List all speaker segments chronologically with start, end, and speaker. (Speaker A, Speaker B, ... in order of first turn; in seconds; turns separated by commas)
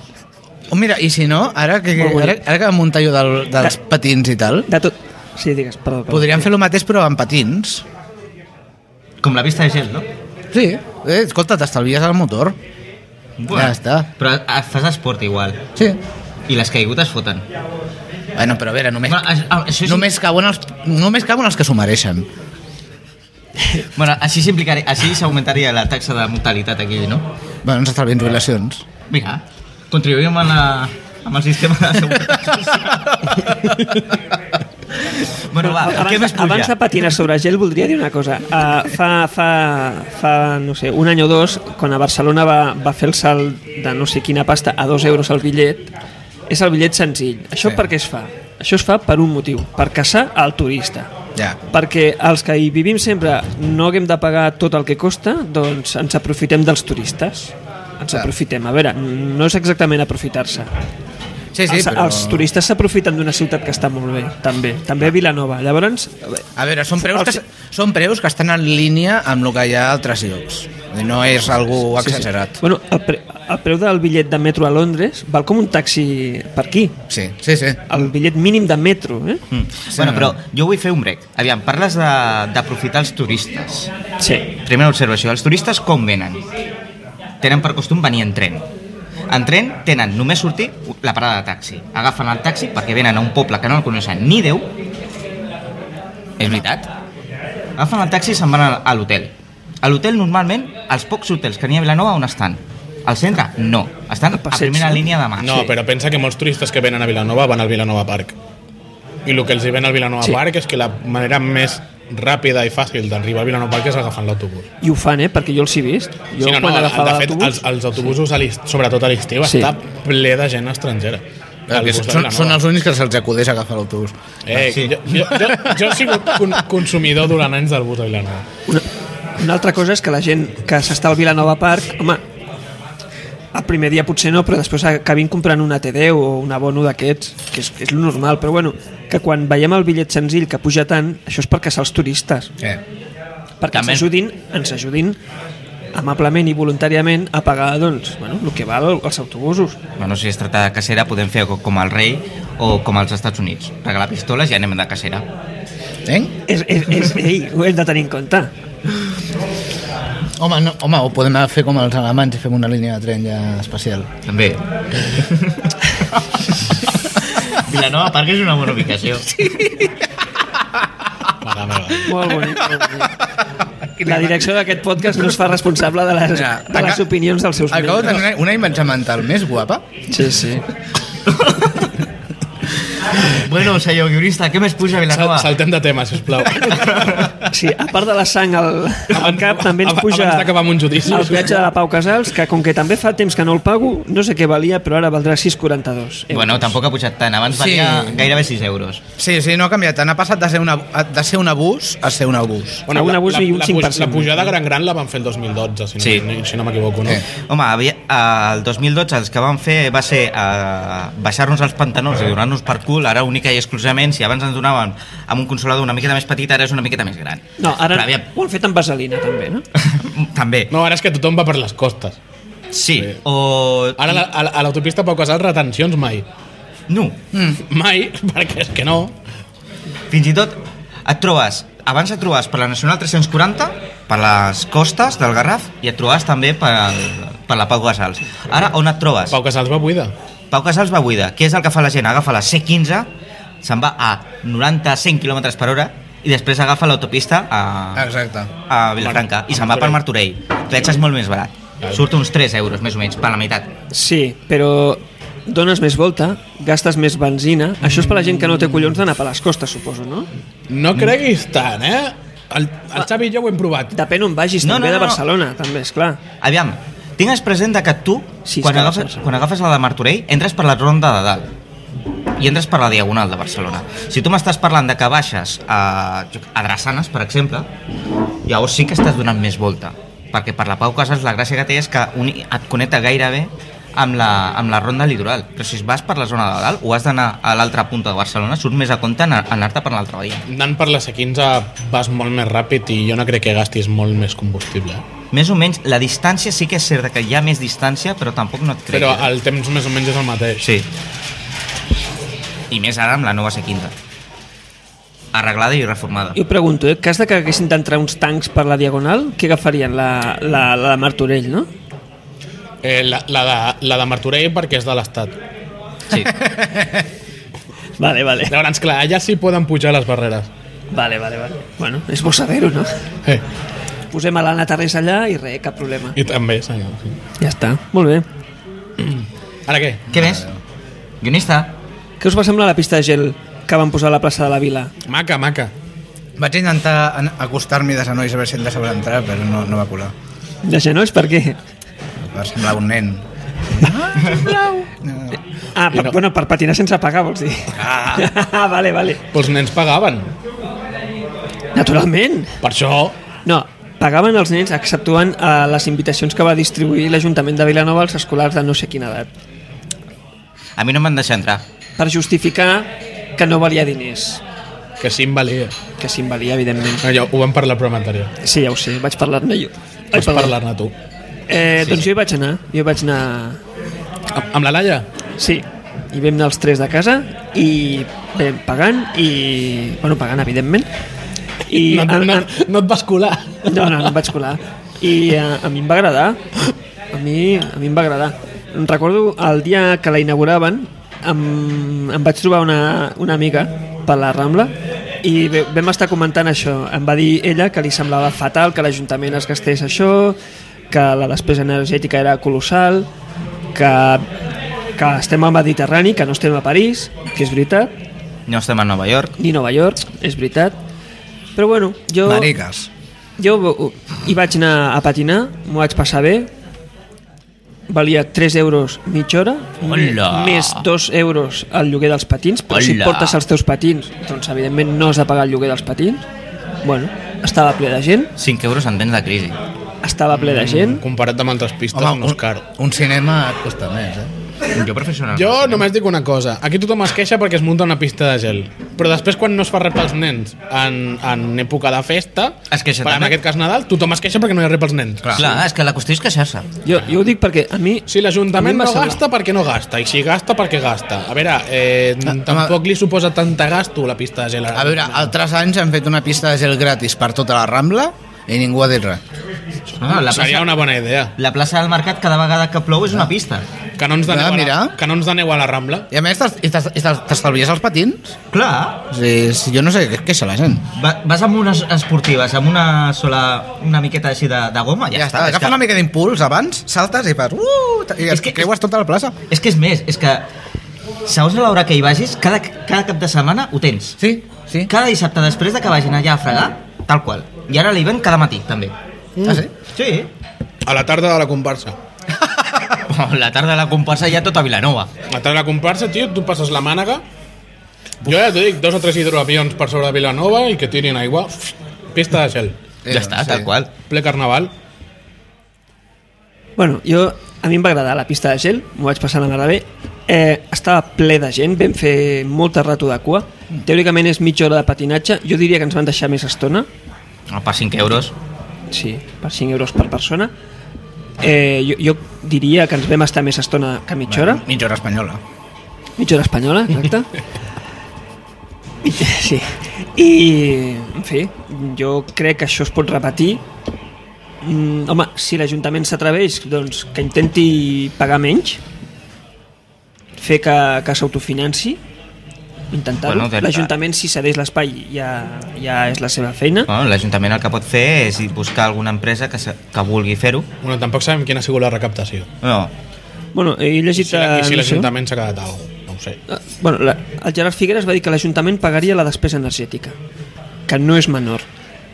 Speaker A: 0.7-4.7, Speaker B: 1.9-2.4, Speaker B: 4.7-6.5, Speaker A: 6.1-7.8, Speaker C: 9.2-10.1, Speaker A: 10.5-12.6, Speaker C: 13.4-15.6, Speaker A: 13.5-14.1, Speaker C: 16.5-17.4, Speaker A: 18.4-19.3, Speaker C: 19.1-20.1, Speaker A: 19.8-22.3, Speaker C: 23.9-27.3, Speaker A: 27.6-28.8, Speaker C: 29.1-33.6, Speaker C: 35.0-36.7, Speaker B: 35.6-45.9, Speaker B: 46.5-51.1, Speaker B: 51.7-60.7, Speaker A: 61.5-62.4, Speaker B: 61.6-66.4, Speaker A: 66.5-72.6, Speaker B: 67.0-67.4, Speaker B: 72.0-77.0, Speaker A: 77.1-77.8, Speaker B: 77.9-79.4, Speaker C: 79.5-83.9, Speaker A: 79.9-80.4, Speaker B: 84.2-84.5, Speaker C: 84.6-86.4, Speaker C: 87.4-88.7, Speaker C: 89.3-94.7, Speaker C: 96.4-96.9, Speaker C: 97.8-105.7, Speaker B: 104.3-105.1, Speaker D: 105.4-108.3, Speaker D: 109.2-114.7, Speaker B: 114.8-118.2, Speaker D: 116.4-122.6, Speaker B: 119.4-119.7, Speaker A: 121.7-124.1, Speaker D: 124.5-128.4, Speaker C: 124.5-125.0, Speaker A: 125.1-126.6, Speaker B: 129.4-132.2, Speaker B: 133.5-142.5, Speaker B: 143.6-145.2, Speaker C: 143.7-144.1, Speaker B: 145.9-149.8, Speaker C: 150.0-155.2, Speaker A: 156.1-156.4, Speaker B: 156.5-158.5, Speaker A: 160.4-164.1, Speaker C: 164.2-166.2, Speaker C: 167.3-169.7, Speaker A: 169.4-169.9, Speaker D: 171.4-172.3, Speaker B: 172.0-173.1, Speaker A: 173.9-174.5, Speaker B: 174.0-178.2, Speaker A: 176.3-177.1, Speaker A: 177.7-179.8, Speaker B: 180.1-180.6, Speaker C: 181.2-181.9, Speaker C: 183.2-185.5, Speaker D: 185.1-187.3, Speaker C: 186.6-187.3, Speaker B: 187.5-190.6, Speaker D: 189.1-191.6, Speaker B: 191.1-196.8, Speaker C: 196.3-199.0, Speaker A: 197.5-198.3, Speaker A: 199.2-202.9, Speaker D: 202.9-207.2, Speaker B: 202.9-204.6, Speaker C: 206.0-206.2, Speaker C: 207.5-218.3, Speaker B: 217.6-219.6, Speaker C: 219.8-220.7, Speaker D: 220.7-222.2, Speaker C: 222.7-224.2, Speaker D: 224.0-226.2, Speaker C: 226.9-227.2, Speaker A: 227.3-227.6, Speaker D: 227.6-229.2, Speaker C: 230.1-239.4, Speaker D: 239.3-240.1, Speaker C: 240.5-243.1, Speaker C: 243.6-248.1, Speaker A: 247.9-248.5, Speaker C: 248.7-253.7, Speaker D: 249.0-250.0, Speaker B: 253.9-260.3, Speaker D: 257.8-258.8, Speaker D: 260.7-263.9, Speaker B: 263.9-266.2, Speaker C: 264.6-265.2, Speaker C: 266.4-271.5, Speaker B: 268.4-269.2, Speaker C: 272.4-277.7, Speaker C: 278.5-290.4, Speaker D: 290.5-295.0, Speaker C: 295.3-299.3, Speaker D: 298.9-300.6, Speaker C: 300.6-300.9, Speaker C: 302.7-303.9, Speaker C: 305.3-306.4, Speaker B: 306.3-311.7, Speaker D: 312.8-315.4, Speaker C: 316.1-316.4, Speaker A: 316.2-317.0, Speaker B: 318.0-318.5, Speaker D: 318.5-320.5, Speaker B: 320.9-322.9, Speaker B: 324.1-326.2, Speaker D: 326.1-327.1, Speaker B: 327.4-328.2, Speaker D: 329.0-330.0, Speaker A: 330.1-330.6, Speaker C: 330.1-330.5, Speaker C: 331.2-331.8, Speaker B: 332.2-334.9, Speaker D: 335.1-335.7, Speaker A: 336.4-340.1, Speaker B: 340.6-341.6, Speaker A: 342.2-345.4, Speaker B: 345.7-349.2, Speaker A: 347.7-348.3, Speaker D: 349.3-350.3, Speaker B: 351.7-352.6, Speaker D: 352.6-353.1, Speaker B: 353.4-359.3, Speaker C: 360.8-361.6, Speaker B: 362.0-364.4, Speaker D: 365.0-365.8, Speaker B: 366.0-367.0, Speaker D: 367.0-368.3, Speaker B: 368.4-370.5, Speaker D: 370.1-370.9, Speaker B: 371.5-373.6, Speaker D: 374.3-375.1, Speaker B: 375.4-380.9, Speaker B: 381.7-382.5, Speaker D: 381.7-384.1, Speaker B: 383.6-386.4, Speaker B: 387.1-400.4, Speaker B: 400.9-403.1, Speaker B: 403.7-404.3, Speaker B: 404.9-407.9, Speaker C: 408.5-409.3, Speaker B: 409.4-410.8, Speaker B: 411.6-412.5, Speaker A: 412.2-412.9, Speaker B: 413.4-416.5, Speaker B: 417.9-426.2, Speaker C: 419.8-420.8, Speaker C: 422.7-423.4, Speaker B: 426.8-428.3, Speaker C: 428.4-429.6, Speaker B: 430.0-431.0, Speaker D: 430.6-432.6, Speaker A: 431.9-434.3, Speaker C: 434.7-435.9, Speaker D: 435.3-445.4, Speaker C: 442.7-443.4, Speaker A: 445.2-445.6, Speaker C: 445.3-446.7, Speaker B: 446.8-449.2, Speaker D: 448.1-455.3, Speaker A: 452.2-452.8, Speaker A: 454.7-459.2, Speaker C: 460.0-460.8, Speaker D: 460.0-461.3, Speaker C: 461.4-463.6, Speaker D: 464.0-466.1, Speaker A: 464.2-464.9, Speaker A: 466.1-468.3, Speaker C: 468.5-469.1, Speaker A: 469.1-470.9, Speaker C: 470.9-475.8, Speaker A: 475.1-479.4, Speaker C: 478.3-478.7, Speaker C: 479.5-480.4, Speaker C: 481.2-484.2, Speaker A: 484.2-484.9, Speaker C: 484.9-488.9, Speaker D: 489.4-489.6, Speaker A: 489.4-489.7, Speaker C: 489.9-490.3, Speaker D: 490.8-492.0, Speaker A: 492.5-492.9, Speaker C: 492.9-495.1, Speaker D: 495.3-497.2, Speaker D: 498.2-502.8, Speaker A: 503.0-503.7, Speaker C: 503.1-503.9, Speaker D: 504.1-504.7, Speaker B: 506.8-516.9, Speaker C: 517.5-518.3, Speaker B: 518.9-520.5, Speaker B: 521.4-524.6, Speaker A: 524.3-525.4, Speaker B: 526.2-527.3, Speaker B: 529.0-533.6, Speaker B: 534.6-538.8, Speaker B: 540.4-542.0, Speaker B: 542.9-546.9, Speaker C: 543.2-543.9, Speaker C: 546.9-550.7, Speaker D: 550.8-552.5, Speaker C: 552.6-552.9, Speaker B: 553.5-555.1, Speaker D: 554.1-556.4, Speaker B: 556.5-560.1, Speaker B: 560.9-561.7